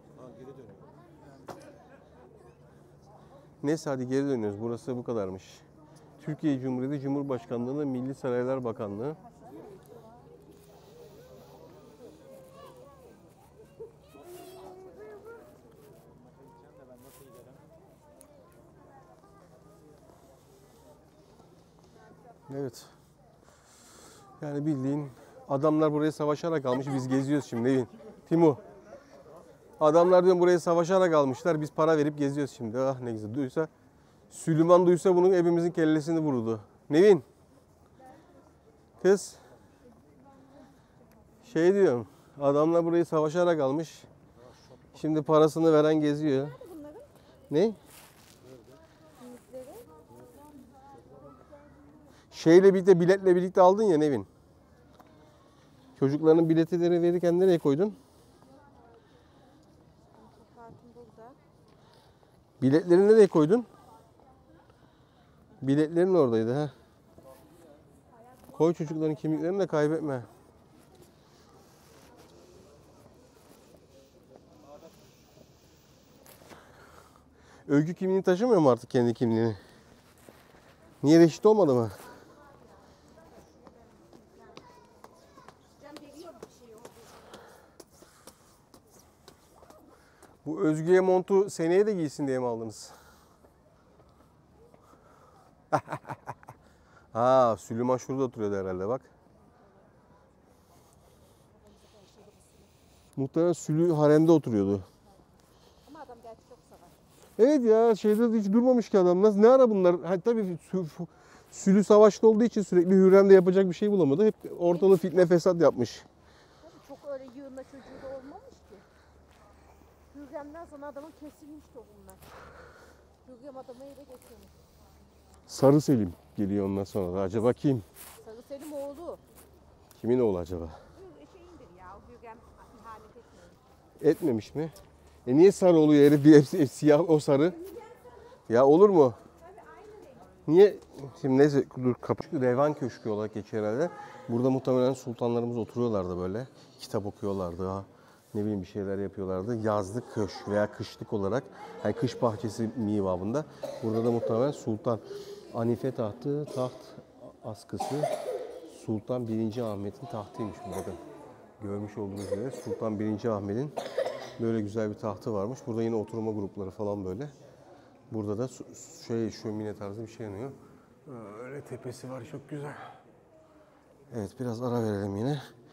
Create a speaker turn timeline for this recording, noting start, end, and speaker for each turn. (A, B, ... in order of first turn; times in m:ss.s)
0:03.6-0:05.6 A
0:06.2-0:09.2 A
0:22.5-0:22.9 A
0:24.4-0:28.6 A
0:29.8-0:33.7 A
0:34.3-0:37.2 A
0:39.0-0:39.4 A
0:41.4-0:44.1 A
0:44.9-0:46.6 A
0:46.4-0:47.1 B
0:47.5-0:47.8 A
0:49.2-0:49.9 B
0:52.3-0:54.3 A
0:56.0-0:58.0 A
1:00.1-1:01.4 B
1:02.6-1:03.7 A
1:05.6-1:06.7 A
1:08.5-1:10.3 A
1:17.7-1:19.6 A
1:21.0-1:22.0 A
1:25.8-1:27.2 B
1:30.4-1:33.0 A
1:35.7-1:36.0 A
1:37.1-1:39.1 A
1:39.4-1:39.9 B
1:41.5-1:42.7 B
1:43.2-1:44.9 A
1:45.8-1:47.0 B
1:47.4-1:56.1 A
1:54.7-1:55.1 B
1:56.6-1:58.9 B
2:00.1-2:02.3 B
2:03.2-2:04.6 B
2:05.5-2:07.9 A
2:08.2-2:09.2 B
2:10.0-2:10.8 A
2:10.9-2:13.6 B
2:14.0-2:14.8 A
2:15.3-2:17.6 A
2:18.5-2:19.2 A
2:19.6-2:20.3 B
2:20.4-2:38.1 A
2:38.7-2:41.0 A
2:41.6-2:43.8 A
2:44.4-2:47.3 A
2:48.1-2:52.9 A
2:54.1-2:55.4 A